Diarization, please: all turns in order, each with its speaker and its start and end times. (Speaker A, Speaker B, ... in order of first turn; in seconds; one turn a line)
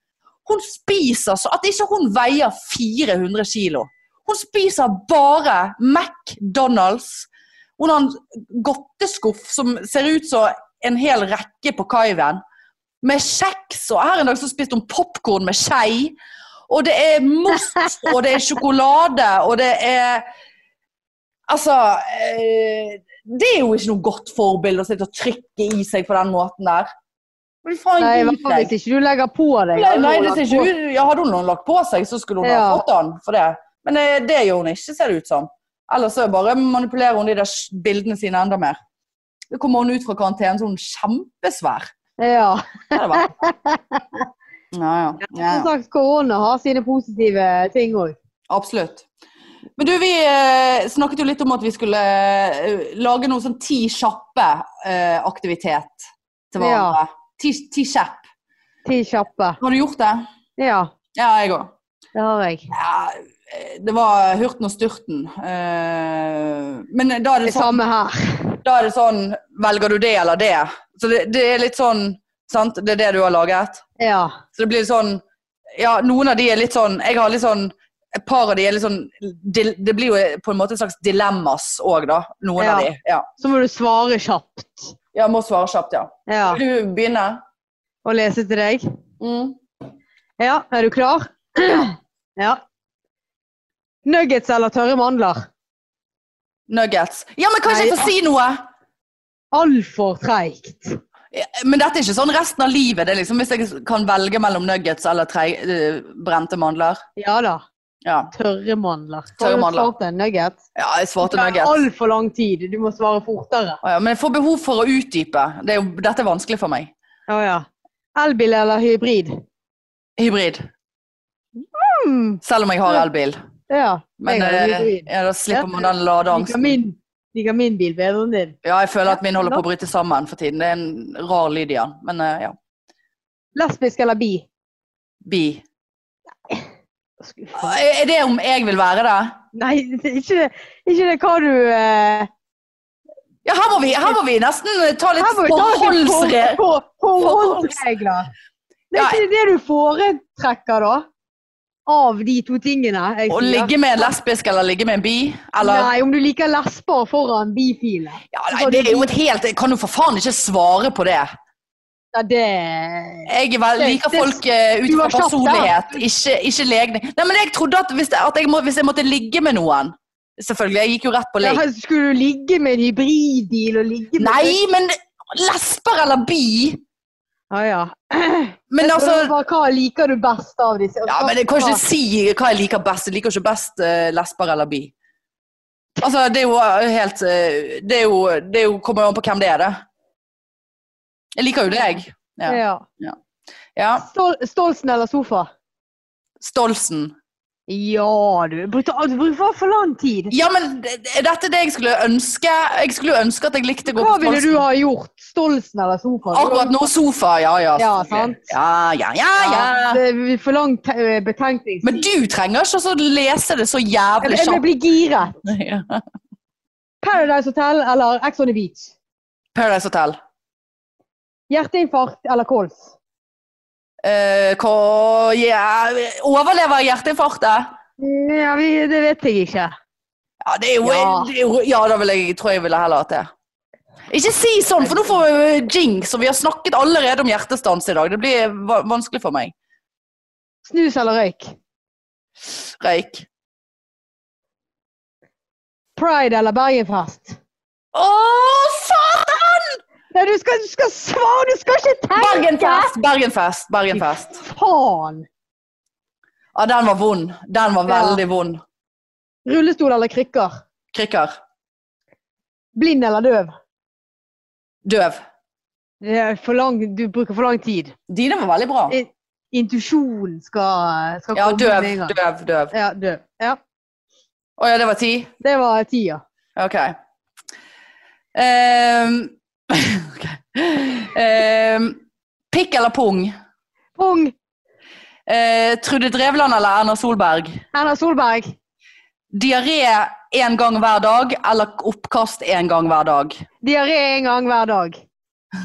Speaker A: 0.4-12.4
Speaker A: 13.0-16.1
Speaker A: 16.7-20.2
Speaker A: 21.5-26.9
Speaker A: 27.6-28.7
Speaker B: 28.0-30.7
Speaker A: 29.7-38.8
Speaker B: 32.4-32.8
Speaker A: 39.5-41.9
Speaker B: 42.2-44.2
Speaker A: 42.9-43.3
Speaker A: 44.7-45.7
Speaker B: 45.2-48.1
Speaker A: 48.5-49.1
Speaker A: 49.8-58.2
Speaker B: 56.6-57.0
Speaker B: 58.9-59.6
Speaker A: 59.6-60.2
Speaker B: 60.6-60.9
Speaker A: 61.1-61.7
Speaker B: 62.1-62.7
Speaker A: 62.7-67.8
Speaker B: 67.4-68.6
Speaker A: 68.6-73.8
Speaker B: 74.0-74.4
Speaker A: 74.5-75.2
Speaker A: 75.8-83.3
Speaker B: 82.6-82.9
Speaker B: 83.4-85.0
Speaker A: 85.1-87.4
Speaker B: 86.3-86.6
Speaker B: 88.0-88.8
Speaker A: 89.2-89.6
Speaker B: 90.4-92.6
Speaker B: 94.0-95.5
Speaker A: 96.7-98.6
Speaker B: 97.7-98.1
Speaker B: 99.5-101.0
Speaker A: 101.3-107.0
Speaker B: 107.2-107.6
Speaker A: 108.0-108.3
Speaker B: 108.3-110.6
Speaker A: 109.4-109.9
Speaker A: 110.8-111.7
Speaker B: 111.2-113.8
Speaker A: 113.8-116.9
Speaker B: 117.3-117.7
Speaker B: 118.2-119.4
Speaker A: 120.2-120.7
Speaker B: 121.7-122.4
Speaker A: 122.4-123.4
Speaker B: 123.7-128.6
Speaker A: 124.2-126.8
Speaker A: 128.6-132.6
Speaker B: 133.5-134.4
Speaker A: 135.2-135.6
Speaker B: 137.2-137.8
Speaker A: 137.5-139.3
Speaker B: 139.5-142.3
Speaker A: 143.4-146.6
Speaker B: 145.2-148.3
Speaker A: 147.2-147.8
Speaker B: 148.9-151.0
Speaker A: 148.9-149.2
Speaker B: 151.9-154.1
Speaker A: 153.3-155.9
Speaker B: 155.6-159.1
Speaker A: 158.3-161.3
Speaker B: 162.1-166.0
Speaker A: 163.3-171.6
Speaker B: 171.4-174.6
Speaker A: 174.2-176.8
Speaker B: 177.5-181.8
Speaker A: 178.7-179.3
Speaker A: 181.1-184.9
Speaker A: 186.0-189.8
Speaker A: 191.4-193.2
Speaker B: 192.5-192.8
Speaker A: 193.8-194.1
Speaker B: 194.0-195.5
Speaker A: 196.4-197.1
Speaker B: 197.7-200.3
Speaker A: 200.3-204.6
Speaker B: 203.9-206.9
Speaker A: 206.3-210.0
Speaker B: 207.8-208.5
Speaker B: 209.4-212.0
Speaker A: 211.8-214.6
Speaker B: 214.2-215.4
Speaker A: 215.4-216.0
Speaker B: 217.0-218.9
Speaker A: 219.5-220.2
Speaker B: 221.5-222.9
Speaker A: 224.0-227.7
Speaker B: 228.0-229.7
Speaker A: 230.4-233.3
Speaker B: 230.8-231.3
Speaker A: 234.1-239.5
Speaker B: 240.6-241.5
Speaker A: 242.4-243.3
Speaker B: 246.0-247.4
Speaker A: 247.9-249.8
Speaker B: 250.1-252.9
Speaker A: 252.2-254.4
Speaker B: 253.9-255.2
Speaker A: 256.5-258.6
Speaker B: 257.9-258.2
Speaker B: 259.4-260.6
Speaker A: 260.9-261.3
Speaker B: 262.8-263.5
Speaker A: 264.8-265.2
Speaker B: 266.0-267.9
Speaker A: 268.1-268.9
Speaker B: 268.9-272.1
Speaker A: 271.3-272.7
Speaker B: 272.7-273.6
Speaker A: 274.6-275.3
Speaker B: 275.4-276.2
Speaker A: 276.6-276.9
Speaker A: 278.3-282.0
Speaker A: 282.5-283.3
Speaker B: 283.9-284.3
Speaker A: 285.3-287.6
Speaker B: 287.7-288.5
Speaker A: 289.3-293.3
Speaker B: 293.6-295.0